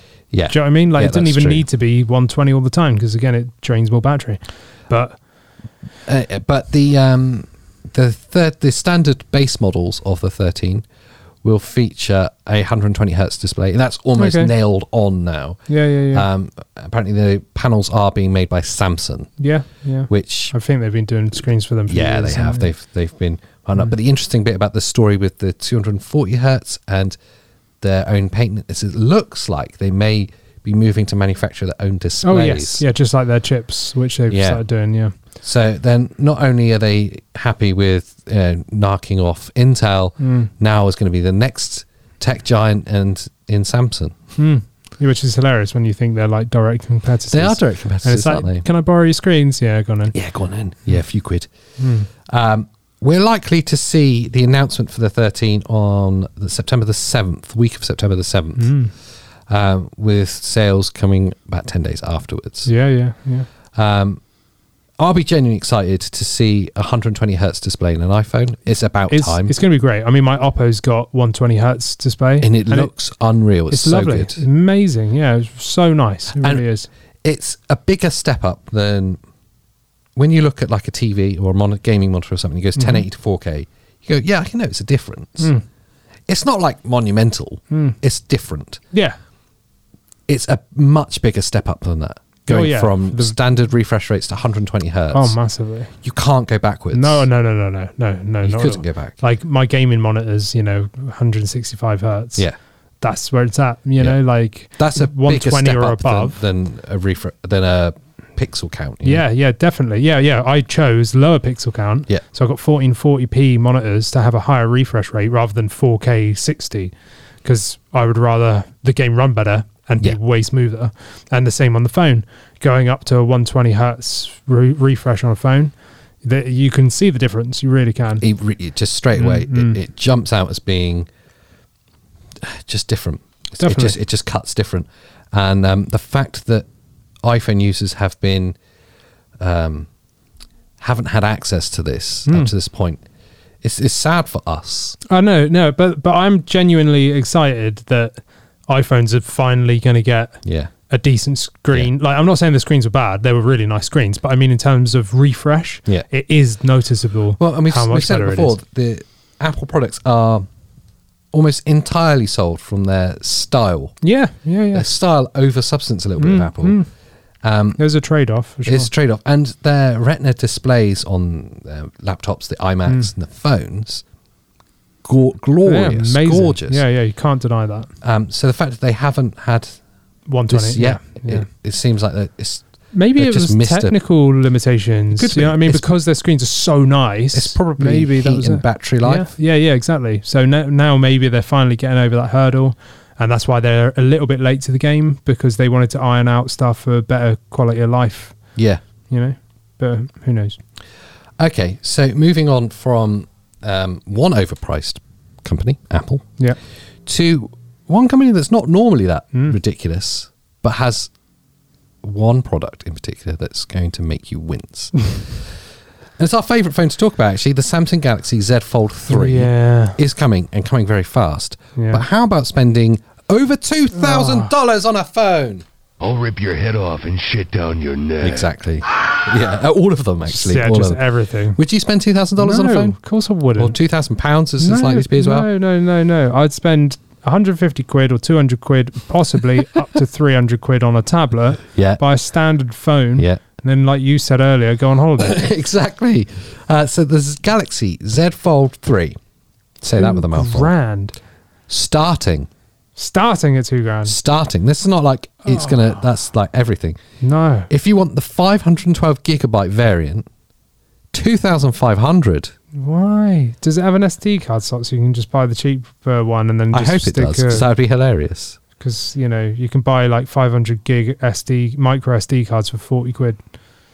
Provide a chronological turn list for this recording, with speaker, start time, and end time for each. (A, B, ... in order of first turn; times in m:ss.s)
0:00.3-0:01.6 A
0:00.5-0:05.2 B
0:06.0-0:10.8 A
0:11.4-0:19.3 A
0:14.2-0:14.5 B
0:15.7-0:16.2 B
0:19.4-0:22.7 B
0:20.1-0:20.5 A
0:21.9-0:27.2 A
0:27.8-0:32.8 A
0:32.2-0:35.1 B
0:34.3-0:34.6 A
0:35.4-0:44.2 A
0:40.2-0:40.5 B
0:44.4-0:50.1 B
0:47.3-0:48.6 A
0:50.1-0:51.5 A
0:51.8-0:52.1 B
0:52.1-0:58.8 A
0:58.6-0:58.9 B
0:59.5-1:02.7 A
1:02.6-1:03.5 B
1:03.7-1:04.2 A
1:05.0-1:09.5 A
1:09.1-1:12.9 B
1:12.4-1:14.4 A
1:13.7-1:16.9 B
1:16.3-1:16.6 A
1:17.2-1:19.2 A
1:20.2-1:25.5 A
1:22.8-1:23.0 B
1:26.3-1:28.8 A
1:27.7-1:28.0 B
1:28.9-1:29.2 B
1:30.3-1:35.4 A
1:32.4-1:33.4 B
1:35.1-1:35.9 B
1:36.0-1:37.2 A
1:36.9-1:42.4 B
1:38.4-1:39.1 A
1:43.0-1:46.4 B
1:44.8-1:49.2 A
1:49.0-2:08.2 B
2:08.2-2:11.1 A
2:09.1-2:09.8 B
2:12.4-2:16.6 A
2:13.6-2:14.0 B
2:17.2-2:18.6 A
2:19.4-2:19.9 A
2:20.8-2:23.0 A
2:22.3-2:22.5 B
2:23.6-2:25.0 A
2:25.1-2:38.6 B
2:30.4-2:30.7 A
2:37.4-2:40.4 A
2:41.3-2:43.9 A
2:44.0-2:44.9 B
2:44.7-2:46.8 A
2:46.2-2:46.9 B
2:47.4-2:47.8 A
2:47.8-2:48.9 B
2:48.6-2:54.0 A
2:55.0-2:56.8 A
2:55.6-2:57.9 B
2:58.0-2:59.8 A
3:00.3-3:01.5 B
3:00.5-3:04.0 A
3:02.9-3:18.4 B
3:05.1-3:05.9 A
3:07.3-3:09.3 A
3:18.6-3:18.8 A
3:19.1-3:20.6 B
3:21.4-3:26.3 A
3:27.0-3:31.1 A
3:32.0-3:35.5 A
3:36.2-3:45.6 A
3:39.1-3:40.0 B
3:41.8-3:42.0 B
3:43.9-3:44.5 B
3:46.0-3:48.5 C
3:48.2-3:51.0 A
3:50.3-3:51.6 B
3:51.6-3:53.0 A
3:52.4-3:53.8 B
3:53.6-3:55.5 A
3:54.6-4:05.4 B
4:01.7-4:02.0 A
4:05.2-4:09.2 A
4:09.8-4:10.7 A
4:10.0-4:11.2 B
4:11.7-4:12.5 A
4:13.0-4:14.1 B
4:14.0-4:17.0 A
4:15.5-4:15.8 B
4:17.2-4:17.7 B
4:17.7-4:20.2 A
4:21.1-4:22.5 A
4:22.7-4:27.7 B
4:26.7-4:28.6 A
4:28.8-4:33.4 B